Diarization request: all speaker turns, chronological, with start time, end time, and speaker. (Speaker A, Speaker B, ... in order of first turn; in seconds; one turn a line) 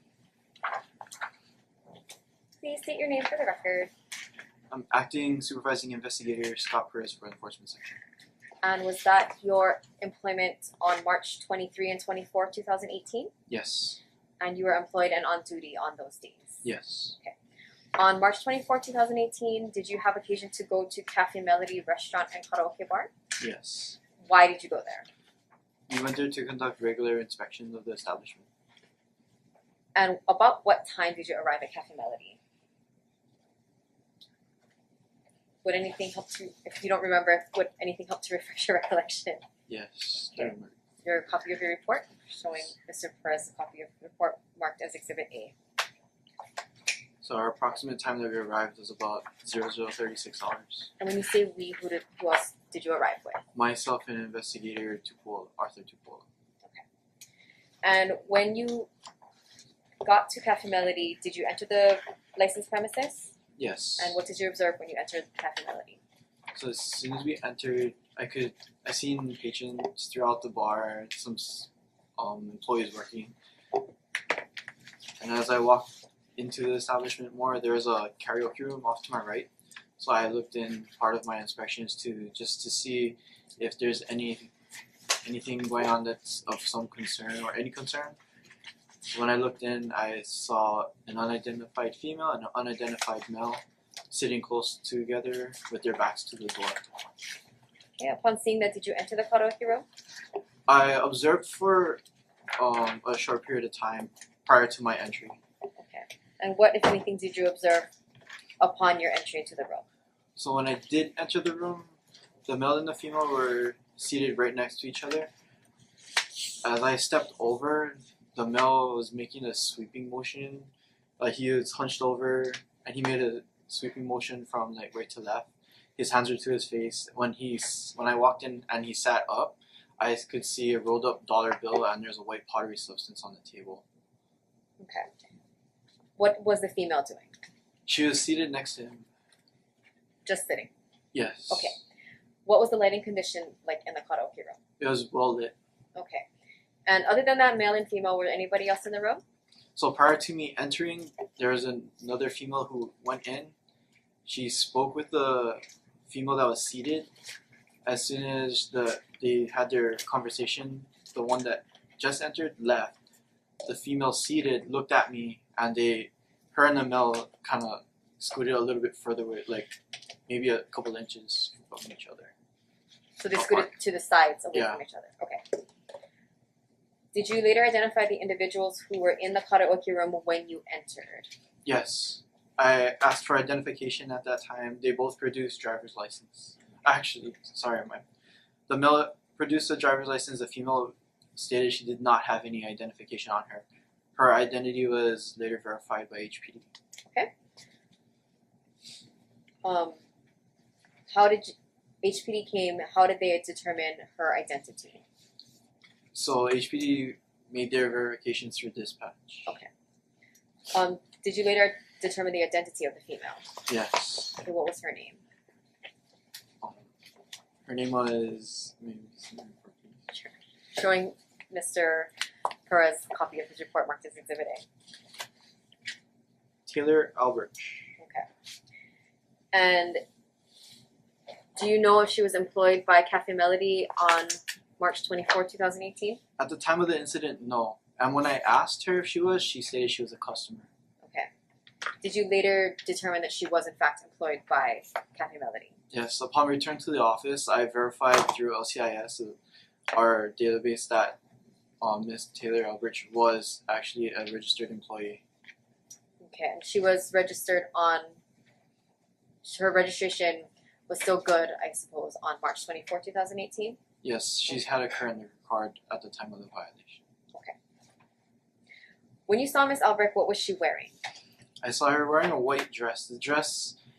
Speaker A: 2.6-3.9
Speaker B: 4.7-8.0
Speaker A: 8.6-13.3
Speaker B: 13.5-14.0
Speaker A: 14.4-16.6
Speaker B: 16.6-17.2
Speaker A: 17.9-23.1
Speaker B: 23.4-24.0
Speaker A: 24.2-25.1
Speaker B: 25.9-28.5
Speaker A: 29.9-32.4
Speaker A: 35.6-39.4
Speaker B: 39.7-40.8
Speaker A: 41.0-45.5
Speaker B: 47.2-50.9
Speaker A: 51.0-53.4
Speaker B: 53.5-56.3
Speaker A: 57.8-58.9
Speaker A: 60.0-63.3
Speaker B: 63.6-64.2
Speaker A: 64.0-66.0
Speaker B: 66.5-73.3
Speaker B: 75.2-84.5
Speaker B: 85.2-88.2
Speaker B: 89.1-96.8
Speaker A: 98.0-99.9
Speaker B: 100.7-102.0
Speaker B: 102.6-105.4
Speaker A: 105.8-107.9
Speaker A: 108.6-109.8
Speaker B: 110.4-112.0
Speaker B: 112.5-115.3
Speaker B: 116.6-133.8
Speaker A: 134.8-135.1
Speaker A: 136.2-137.3
Speaker B: 137.9-139.1
Speaker A: 140.3-140.7
Speaker B: 141.1-141.8
Speaker A: 141.5-141.8
Speaker A: 142.5-144.6
Speaker B: 144.8-145.6
Speaker A: 145.9-146.3
Speaker A: 146.9-149.2
Speaker B: 149.8-153.5
Speaker B: 154.2-157.1
Speaker B: 157.8-163.0
Speaker B: 163.6-169.8
Speaker B: 170.3-172.3
Speaker A: 173.2-175.6
Speaker B: 173.3-173.7
Speaker B: 174.5-174.8
Speaker A: 177.1-181.3
Speaker B: 181.7-188.0
Speaker B: 188.7-196.7
Speaker A: 199.6-200.0
Speaker A: 201.1-205.0
Speaker B: 206.1-209.5
Speaker A: 210.7-213.5
Speaker B: 213.7-214.4
Speaker A: 214.4-215.2
Speaker B: 217.7-220.0
Speaker A: 220.1-222.1
Speaker A: 222.7-224.7
Speaker B: 226.7-227.9
Speaker A: 228.0-228.3
Speaker A: 229.5-230.0
Speaker A: 231.6-236.2
Speaker B: 236.4-240.7
Speaker A: 241.0-241.3
Speaker A: 242.0-245.8
Speaker B: 245.9-249.4
Speaker B: 249.9-251.2
Speaker B: 251.8-255.2
Speaker A: 256.2-258.1
Speaker A: 259.4-263.8
Speaker B: 264.0-267.0
Speaker A: 269.3-270.9
Speaker B: 271.6-273.8